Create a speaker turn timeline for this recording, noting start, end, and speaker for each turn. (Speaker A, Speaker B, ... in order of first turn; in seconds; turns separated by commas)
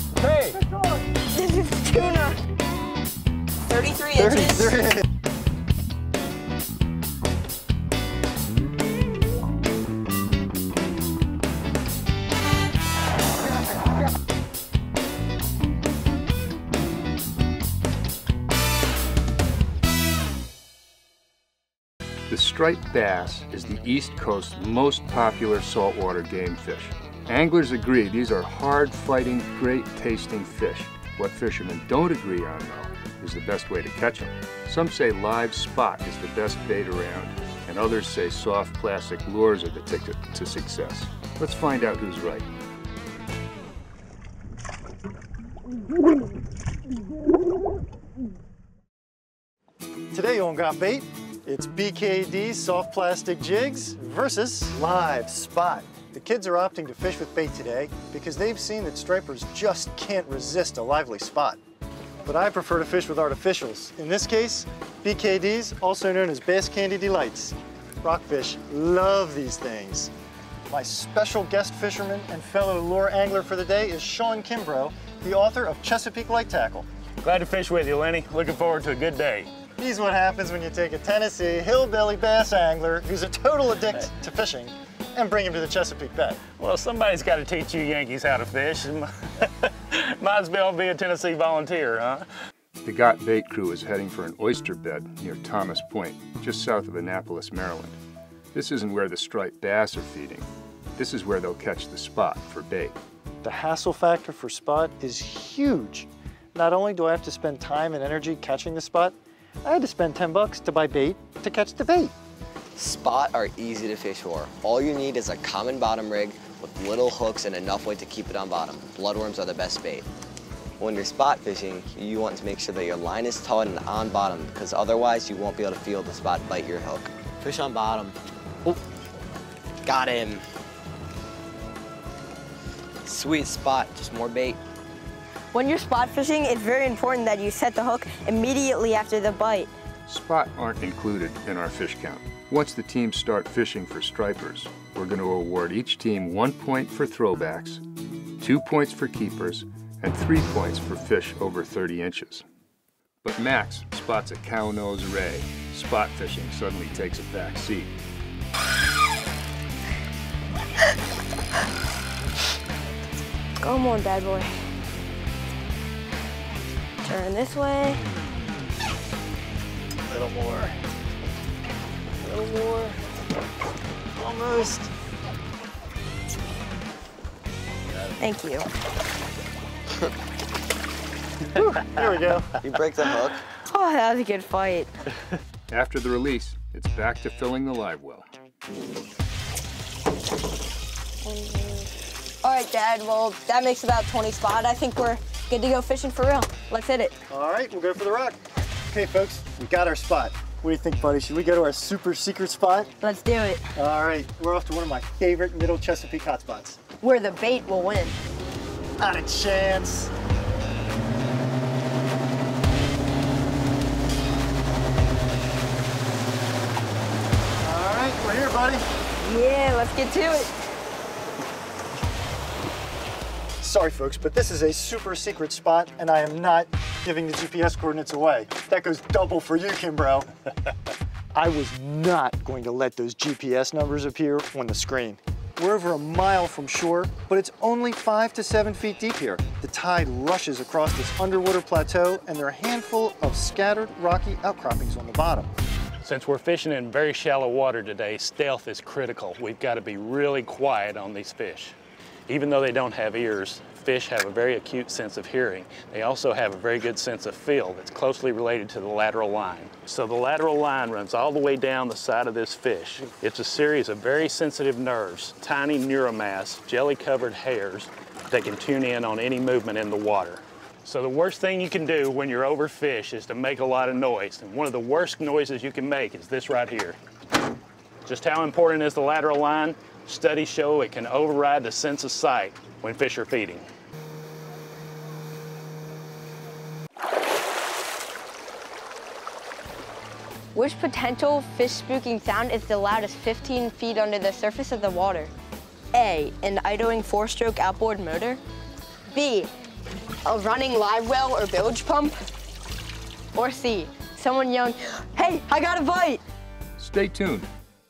Speaker A: 0.4-1.1, Speaker B: 1.3-2.4, Speaker B: 3.6-4.8, Speaker A: 4.2-5.1, Speaker C: 22.3-42.5, Speaker A: 50.1-61.6, Speaker A: 62.2-70.1, Speaker A: 70.7-76.9, Speaker D: 77.2-79.5, Speaker A: 79.8-86.4, Speaker D: 86.6-92.3, Speaker C: 92.8-98.0, Speaker C: 98.5-103.0, Speaker A: 103.4-112.1, Speaker E: 112.8-120.1, Speaker E: 120.8-128.8, Speaker E: 129.8-130.4, Speaker E: 133.0-134.6, Speaker B: 135.5-139.7, Speaker C: 140.1-147.8, Speaker C: 148.4-152.4, Speaker C: 153.2-157.9, Speaker B: 163.6-164.5, Speaker B: 167.0-168.0, Speaker A: 170.1-170.8, Speaker A: 172.2-173.0, Speaker A: 174.2-174.9, Speaker B: 178.2-178.7, Speaker A: 181.5-182.6, Speaker E: 182.6-183.4, Speaker B: 183.6-184.9, Speaker C: 185.7-188.3, Speaker B: 191.2-191.9, Speaker B: 192.4-197.2, Speaker A: 197.3-198.4, Speaker A: 198.9-202.9, Speaker B: 203.0-203.7, Speaker A: 203.8-206.8, Speaker B: 207.0-208.2, Speaker A: 209.0-210.1, Speaker A: 217.6-218.8, Speaker B: 219.2-220.5, Speaker A: 223.6-230.3, Speaker A: 231.3-245.5, Speaker D: 246.0-251.8, Speaker D: 252.3-277.0, Speaker D: 278.1-283.7, Speaker B: 290.5-295.3, Speaker B: 295.9-298.4, Speaker B: 299.1-299.5, Speaker B: 300.2-302.2, Speaker B: 303.4-306.2, Speaker C: 306.8-307.5